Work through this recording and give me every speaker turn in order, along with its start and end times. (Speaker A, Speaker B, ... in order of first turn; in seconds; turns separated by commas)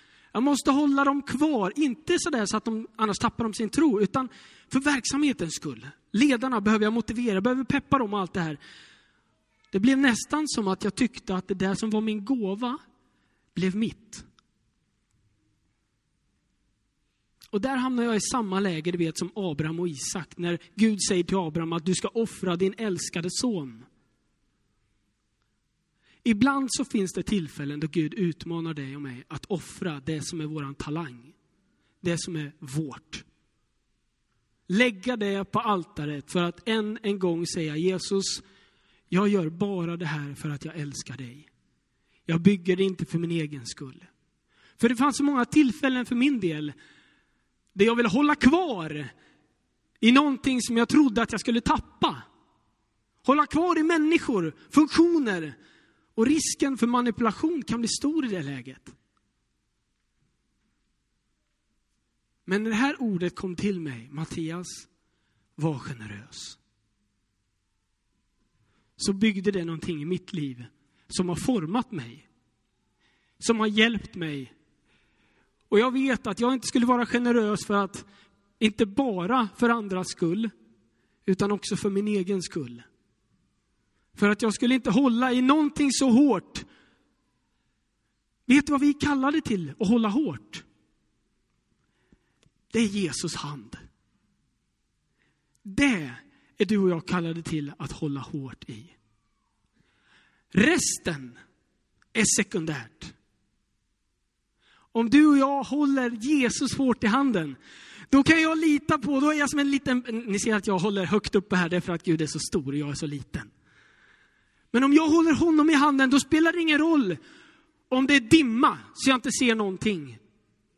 Speaker A: 0.3-8.6, Speaker A: 9.7-12.8, Speaker A: 13.5-14.2, Speaker A: 17.5-23.9, Speaker A: 26.2-31.3, Speaker A: 32.0-33.2, Speaker A: 34.7-38.4, Speaker A: 39.1-41.5, Speaker A: 42.3-44.1, Speaker A: 44.8-46.7, Speaker A: 47.7-49.1, Speaker A: 50.0-52.2, Speaker A: 53.2-55.5, Speaker A: 56.1-58.9, Speaker A: 62.5-64.9, Speaker A: 65.6-66.6, Speaker A: 69.0-72.2, Speaker A: 73.4-74.5, Speaker A: 75.7-78.1, Speaker A: 78.6-80.5, Speaker A: 81.2-82.8, Speaker A: 84.2-86.7, Speaker A: 88.5-90.6, Speaker A: 92.7-93.8, Speaker A: 95.6-98.9, Speaker A: 100.5-101.4, Speaker A: 102.1-103.1, Speaker A: 104.9-107.6, Speaker A: 108.1-113.5, Speaker A: 114.7-117.2, Speaker A: 117.9-120.2